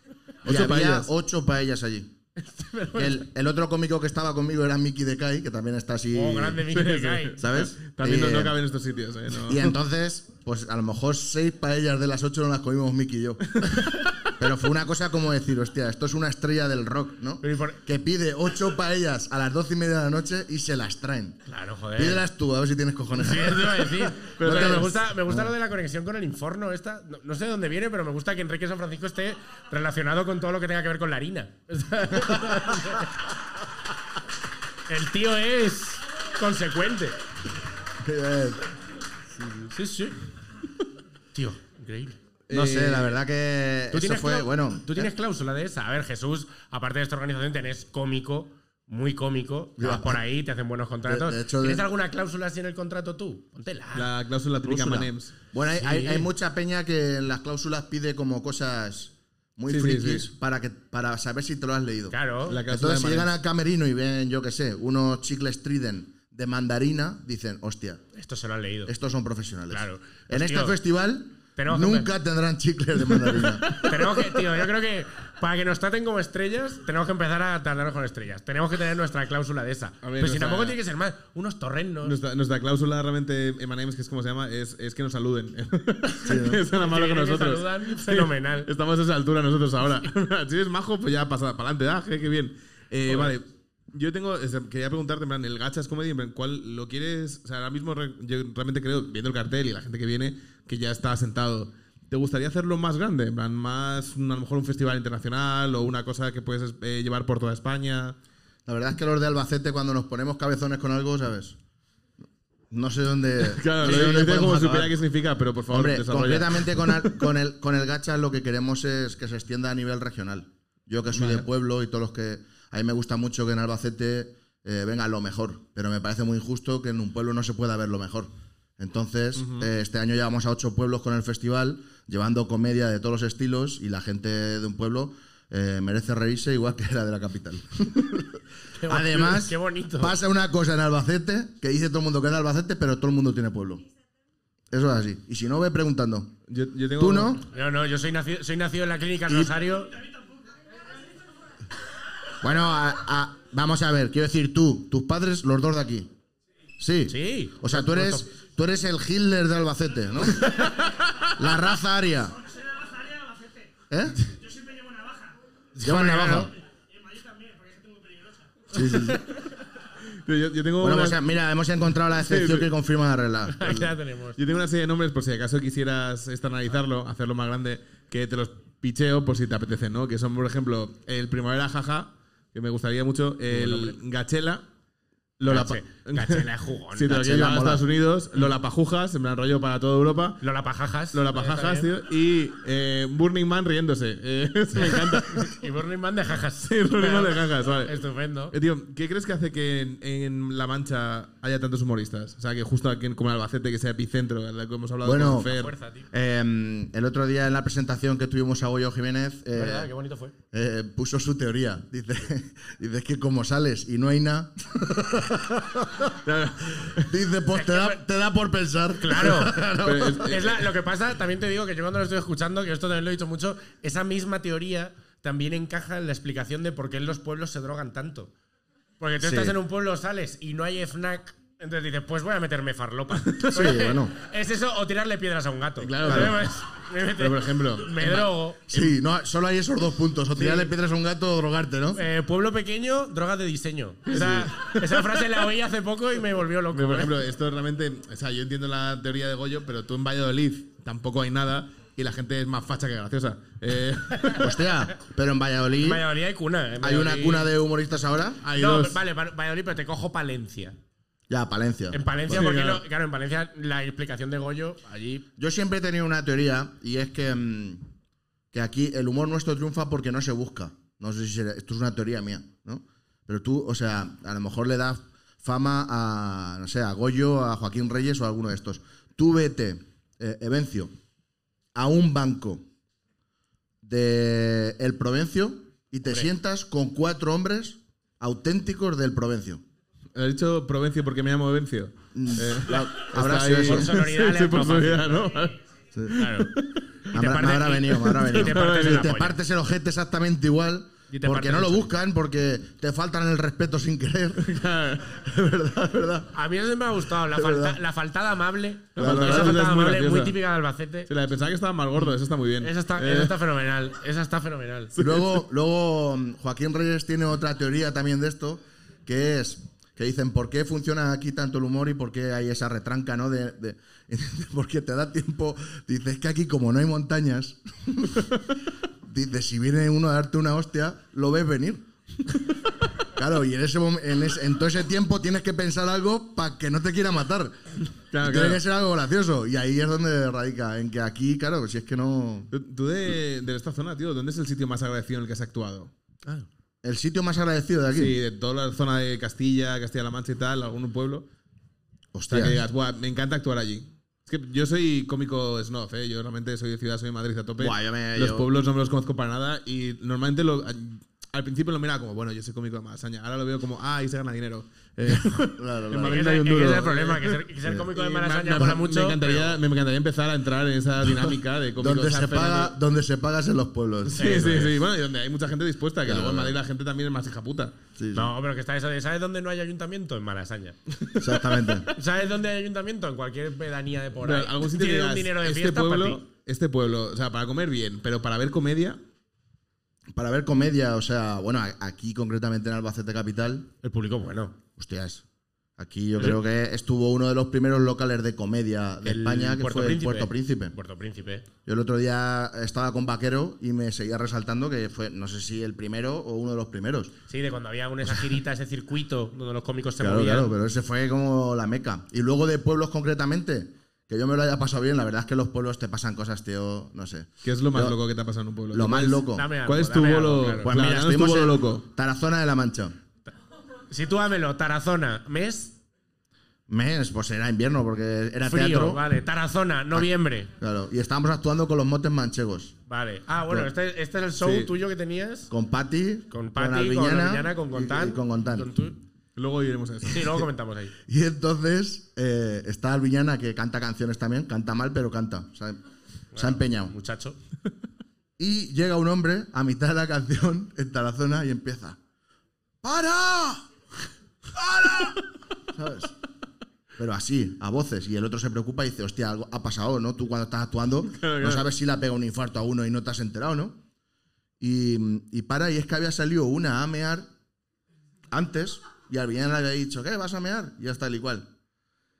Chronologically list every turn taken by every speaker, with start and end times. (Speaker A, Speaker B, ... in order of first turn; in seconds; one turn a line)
Speaker A: 0.4-1.1
Speaker B: 0.4-2.1
Speaker C: 2.4-3.2
Speaker B: 3.0-6.6
Speaker C: 6.1-7.4
Speaker A: 6.7-9.7
Speaker B: 7.4-8.6
Speaker B: 9.4-13.4
Speaker A: 13.6-14.1
Speaker B: 14.4-21.4
Speaker C: 17.4-17.8
Speaker C: 21.5-22.2
Speaker B: 21.9-25.5
Speaker C: 23.1-33.1
Speaker A: 24.4-25.0
Speaker C: 34.9-37.2
Speaker B: 38.0-38.7
Speaker B: 39.3-39.7
Speaker C: 39.7-40.2
Speaker C: 41.3-42.2
Speaker A: 42.5-43.1
Speaker B: 42.5-45.1
Speaker C: 43.9-54.1
Speaker B: 49.8-50.2
Speaker B: 51.1-51.8
Speaker A: 53.9-55.3
Speaker B: 54.6-68.0
Speaker C: 55.8-56.3
Speaker A: 59.7-60.3
Speaker C: 62.1-62.6
Speaker A: 62.5-63.3
Speaker C: 68.1-68.9
Speaker B: 68.9-73.8
Speaker C: 69.7-70.8
Speaker C: 71.6-72.1
Speaker A: 73.7-73.9
Speaker C: 73.7-82.2
Speaker A: 80.0-80.8
Speaker A: 82.0-108.2
Speaker B: 86.2-86.6
Speaker C: 86.7-88.7
Speaker C: 93.1-93.3
Speaker B: 108.7-111.6
Speaker B: 112.7-114.9
Speaker A: 113.4-117.2
Speaker B: 115.7-143.8
Speaker A: 121.1-121.5
Speaker A: 129.4-129.7
Speaker C: 138.8-140.2
Speaker B: 144.7-146.3
Speaker A: 146.5-147.4
Speaker B: 147.0-147.4
Speaker C: 147.4-149.9
Speaker B: 152.4-156.1
Speaker B: 156.8-160.5
Speaker C: 157.1-158.2
Speaker B: 161.3-162.3
Speaker B: 163.9-164.3
Speaker C: 165.8-166.5
Speaker B: 165.8-166.5
Speaker B: 168.7-169.2
Speaker A: 170.1-171.2
Speaker B: 170.8-173.9
Speaker A: 172.2-172.7
Speaker C: 173.5-174.4
Speaker A: 174.4-184.6
Speaker C: 183.5-183.9
Speaker A: 185.4-190.4
Speaker C: 185.5-187.3
Speaker B: 187.1-187.8
Speaker C: 190.4-191.9
Speaker A: 191.1-195.5
Speaker C: 194.8-198.5
Speaker A: 196.6-198.0
Speaker A: 198.5-205.7
Speaker B: 205.0-205.5
Speaker C: 205.5-206.1
Speaker B: 206.1-209.9
Speaker C: 209.5-210.3
Speaker B: 210.5-216.1
Speaker A: 216.2-217.1
Speaker B: 216.8-220.4
Speaker C: 217.5-218.0
Speaker C: 219.0-219.7
Speaker A: 219.8-220.5
Speaker C: 220.2-228.3
Speaker C: 229.0-238.7
Speaker B: 229.2-229.6
Speaker B: 233.5-234.1
Speaker A: 235.8-236.5
Speaker B: 236.1-236.3
Speaker A: 237.2-238.9
Speaker B: 238.7-242.0
Speaker C: 240.3-240.7
Speaker C: 241.9-247.2
Speaker A: 244.1-245.0
Speaker B: 244.1-244.4
Speaker A: 246.7-254.5
Speaker B: 254.4-256.0
Speaker C: 255.8-257.5
Speaker B: 256.8-258.4
Speaker A: 258.4-259.0
Speaker C: 258.5-260.8
Speaker B: 261.3-262.4
Speaker C: 261.9-265.2
Speaker A: 262.3-262.8
Speaker B: 265.4-267.8
Speaker B: 268.5-280.9
Speaker B: 281.7-282.6
Speaker B: 283.8-289.6
Speaker A: 290.1-295.6
Speaker B: 292.1-293.9
Speaker C: 293.6-295.2
Speaker A: 296.1-296.9
Speaker C: 296.1-296.5
Speaker B: 297.1-304.4
Speaker C: 297.1-299.4
Speaker A: 298.1-299.1
Speaker C: 301.1-301.9
Speaker A: 304.4-305.2
Speaker B: 305.1-306.3
Speaker C: 306.3-311.1
Speaker B: 307.3-307.8
Speaker A: 308.9-310.4
Speaker B: 309.0-309.6
Speaker A: 311.1-313.3
Speaker C: 312.6-314.9
Speaker A: 314.9-315.4
Speaker B: 315.0-328.3
Speaker B: 329.0-331.8
Speaker B: 333.2-342.5
Speaker A: 338.1-338.6
Speaker A: 342.5-345.9
Speaker B: 346.8-348.2
Speaker A: 347.9-351.3
Speaker B: 352.1-352.6
Speaker A: 352.3-367.4
Speaker B: 357.6-358.5
Speaker B: 365.5-366.3
Speaker C: 366.0-369.6
Speaker B: 367.6-367.9
Speaker A: 367.9-372.8
Speaker B: 371.8-374.8
Speaker A: 374.1-377.8
Speaker C: 374.1-374.6
Speaker B: 376.0-376.6
Speaker B: 377.9-378.3
Speaker C: 378.1-380.8
Speaker A: 380.9-381.5
Speaker B: 381.2-381.9
Speaker C: 381.9-386.2
Speaker A: 384.2-389.0
Speaker B: 390.1-393.7
Speaker C: 393.8-394.6
Speaker B: 394.8-395.2
Speaker B: 395.8-400.7
Speaker C: 399.0-401.4
Speaker B: 401.6-407.1
Speaker C: 407.3-410.5
Speaker B: 410.0-418.0
Speaker A: 417.4-421.8
Speaker B: 418.7-419.5
Speaker C: 419.3-420.7
Speaker B: 420.6-422.9
Speaker C: 423.9-425.8
Speaker B: 426.7-429.0
Speaker C: 428.4-430.5
Speaker B: 430.6-432.7
Speaker C: 432.9-435.5
Speaker A: 434.4-434.7
Speaker B: 435.5-438.7
Speaker C: 436.3-439.0
Speaker A: 439.4-440.4
Speaker C: 440.0-440.9
Speaker B: 441.1-445.8
Speaker C: 446.3-447.4
Speaker B: 446.4-446.9
Speaker B: 448.4-452.0
Speaker B: 452.8-453.6
Speaker B: 454.5-455.2
Speaker B: 455.7-456.1
Speaker B: 457.0-463.8
Speaker A: 461.1-461.7
Speaker B: 464.6-467.3
Speaker B: 468.3-471.5